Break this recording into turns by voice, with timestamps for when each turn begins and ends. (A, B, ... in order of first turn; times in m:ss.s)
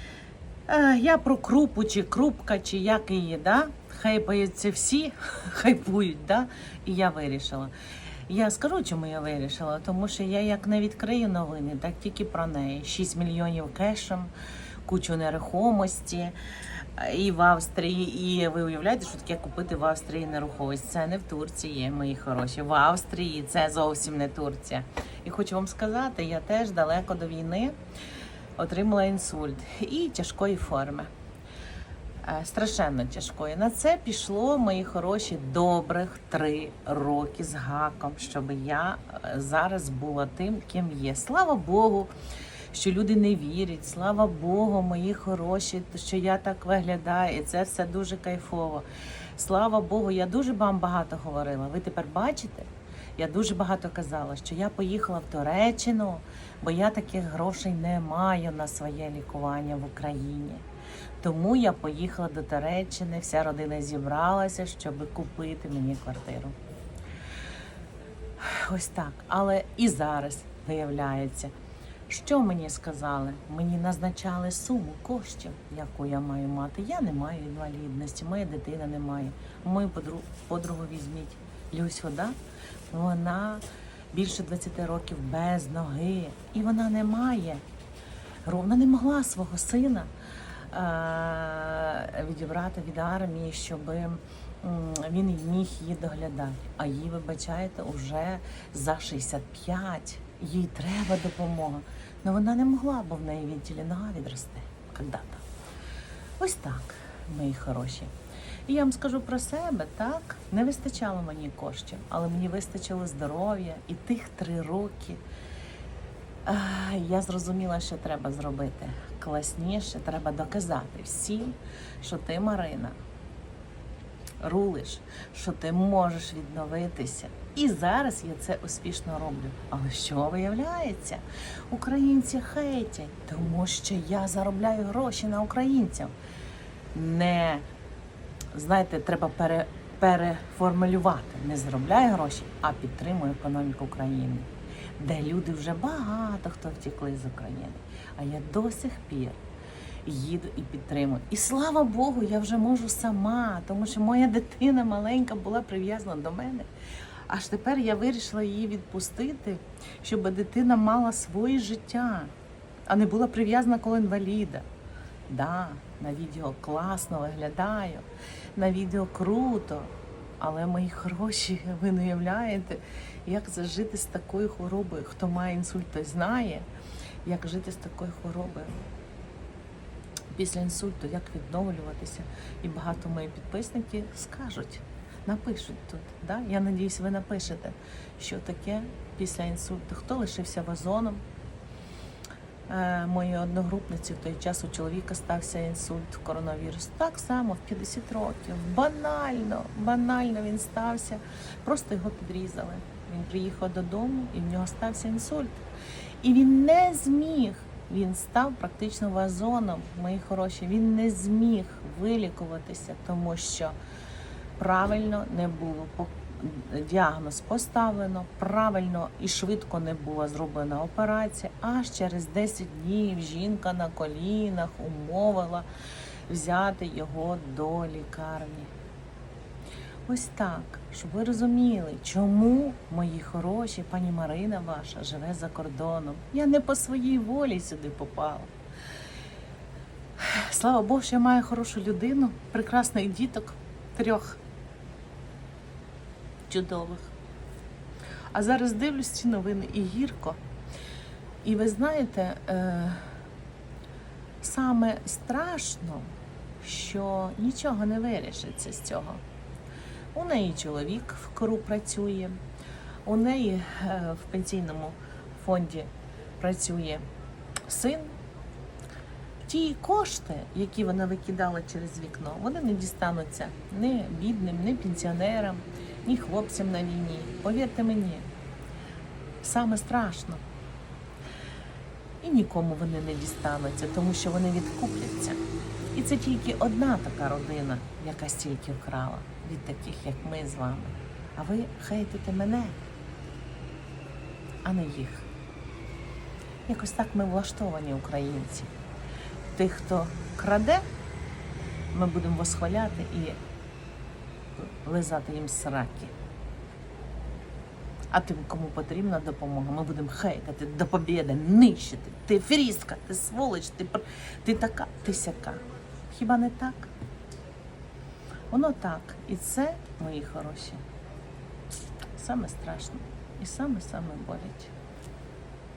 0:00.7-0:07.7 A
0:08.3-0:14.3 A
0:14.9-0:16.4 A
0:17.0-0:27.7 A
0:28.6-0:31.1 A
0:32.2-0:42.1 A
0:42.7-1:00.6 A
1:01.2-1:06.6 A
1:08.4-1:11.5 A
1:12.1-1:22.4 A
1:22.9-1:27.6 A
1:28.4-1:30.1 A
1:30.7-1:45.4 A
1:46.4-1:48.1 A
1:48.7-1:55.2 A
1:56.5-2:03.0 A
2:04.4-2:16.1 A
2:16.9-2:17.7 A
2:18.5-2:24.5 A
2:25.0-2:29.4 A
2:30.0-2:36.7 A
2:37.3-2:42.3 A
2:42.9-2:44.7 A
2:45.3-2:56.7 A
2:57.2-2:58.8 A
3:00.3-3:11.2 A
3:12.7-3:25.6 A
3:26.2-3:33.8 A
3:34.6-3:45.7 A
3:46.3-3:48.7 A
3:50.1-3:58.5 A
4:00.2-4:04.4 A
4:06.5-4:07.1 A
4:08.3-4:10.4 A
4:11.4-4:13.0 A
4:14.4-4:16.1 A
4:16.6-4:19.2 A
4:20.2-4:22.4 A
4:23.0-4:27.0 A
4:27.7-4:28.2 A
4:29.4-4:38.3 A
4:39.4-4:40.4 A
4:42.2-4:45.4 A
4:45.9-4:52.8 A
4:54.6-4:55.3 A
4:56.7-4:58.7 A
4:59.6-5:00.8 A
5:01.9-5:03.4 A
5:04.6-5:06.1 A
5:08.1-5:16.9 A
5:18.5-5:20.8 A
5:22.2-5:24.7 A